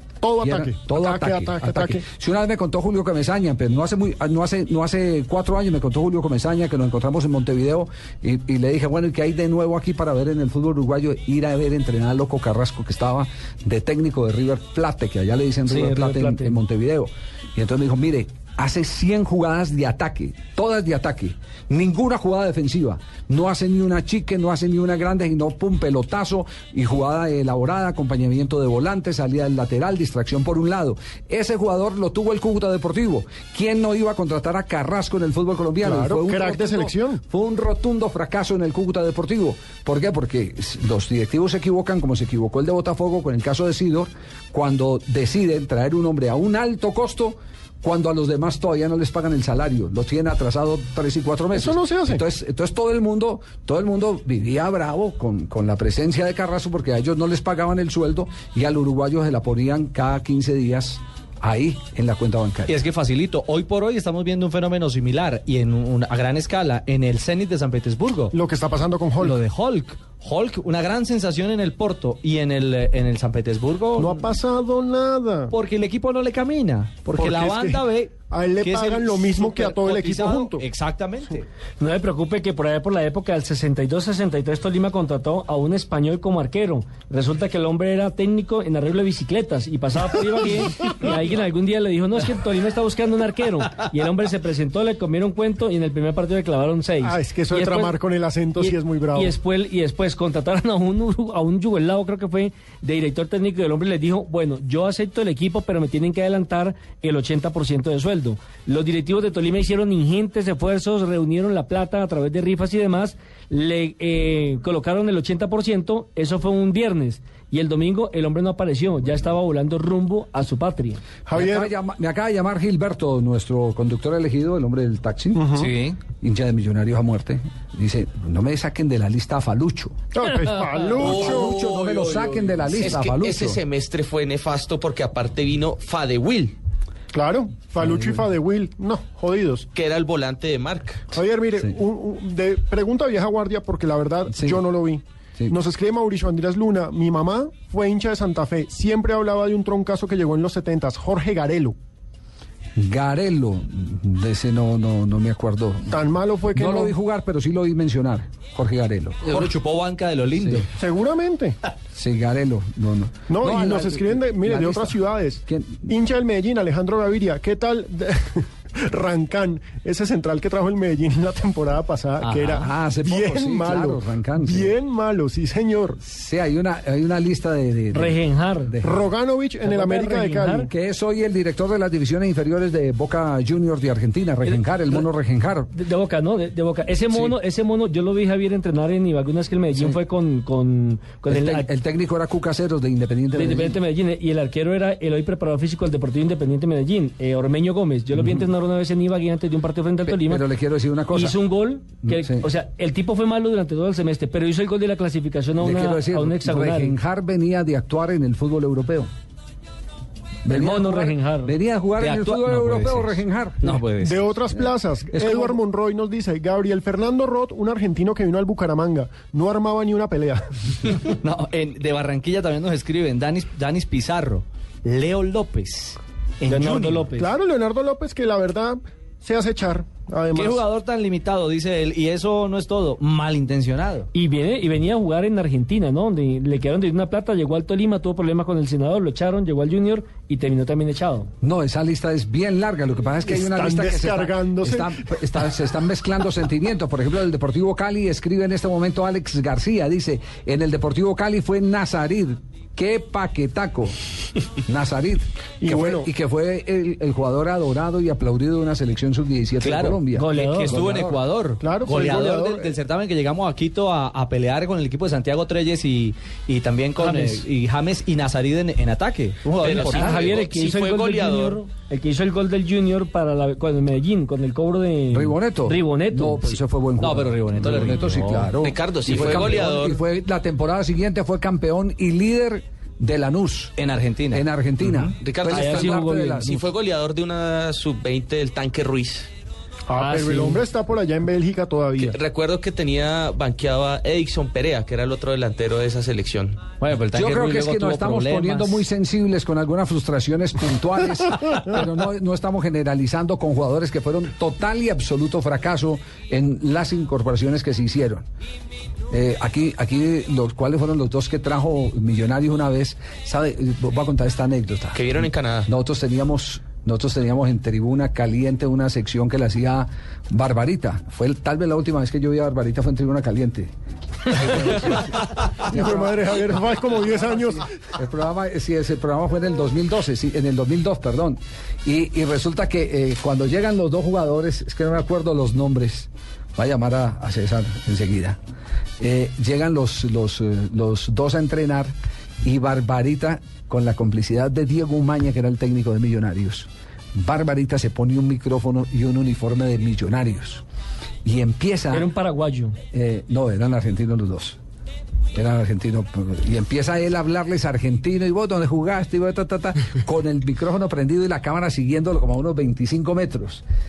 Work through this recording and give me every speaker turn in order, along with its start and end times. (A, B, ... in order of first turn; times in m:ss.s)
0:00.2-0:02.0 A
0:00.4-1:02.8 B
0:15.6-0:16.6 C
0:35.8-0:37.2 A
0:51.5-0:52.2 A
1:02.7-1:08.4 D
1:08.3-1:09.4 A
1:09.2-1:14.2 D
1:14.0-1:15.5 A
1:15.5-1:21.4 D
1:17.0-1:20.7 A
1:21.8-1:38.0 C
1:37.0-1:39.3 A
1:38.6-2:01.0 C
2:01.3-2:01.7 A
2:01.3-2:05.6 B
2:05.3-2:05.7 A
2:05.6-2:06.0 D
2:06.2-2:09.9 B
2:10.1-2:11.6 A
2:11.0-2:16.6 E
2:11.1-2:13.6 B
2:17.1-2:19.7 A
2:17.8-2:18.2 B
2:19.7-2:21.1 E
2:21.1-2:31.8 A
2:24.3-2:24.6 B
2:32.8-2:36.0 B
2:35.9-2:36.9 A
2:36.5-2:39.5 B
2:39.2-2:40.7 D
2:40.4-2:40.6 B
2:40.8-2:41.6 A
2:41.9-2:45.9 B
2:43.3-2:56.0 A
2:52.3-2:54.7 B
2:56.0-2:58.9 B
2:57.9-2:58.7 C
2:58.8-3:00.7 A
2:59.6-3:00.7 C
3:00.7-3:05.7 B
3:05.7-3:11.7 C
3:11.3-3:13.8 B
3:13.3-3:20.4 C
3:18.1-3:18.5 B
3:20.0-3:21.4 B
3:21.1-3:27.0 C
3:22.0-3:22.4 B
3:25.6-3:29.1 B
3:30.4-3:33.8 B
3:30.5-3:31.5 C
3:32.0-3:34.2 D
3:34.0-3:40.5 A
3:34.6-3:35.6 B
3:41.2-3:47.1 D
3:46.5-3:47.3 C
3:47.2-3:50.6 A
3:50.3-3:54.1 D
3:54.1-4:01.3 C
4:01.4-4:14.0 B
4:03.2-4:04.9 A
4:14.6-4:21.2 B
4:15.6-4:16.1 A
4:19.6-4:30.3 D
4:20.1-4:20.8 C
4:21.6-4:22.8 A
4:29.5-4:31.6 E
4:29.8-4:36.6 C
4:35.1-4:43.8 B
4:37.0-4:38.5 D
4:38.6-4:40.0 E
4:39.1-4:39.5 D
4:43.8-4:45.1 D
4:44.3-4:46.7 B
4:45.2-4:49.3 E
4:45.5-4:46.5 C
4:49.9-4:52.2 A
4:49.9-4:50.6 C
4:52.0-4:56.6 E
4:56.8-4:58.8 D
4:57.1-5:08.2 B
5:09.1-5:23.7 B
5:14.9-5:15.7 E
5:24.3-5:24.9 B
5:25.7-5:26.2 B
5:25.7-5:27.6 A
5:27.5-5:38.4 B
5:39.0-5:50.6 B
5:51.2-5:52.1 B
5:51.9-5:52.8 C
5:52.9-5:54.6 B
5:55.3-6:03.6 B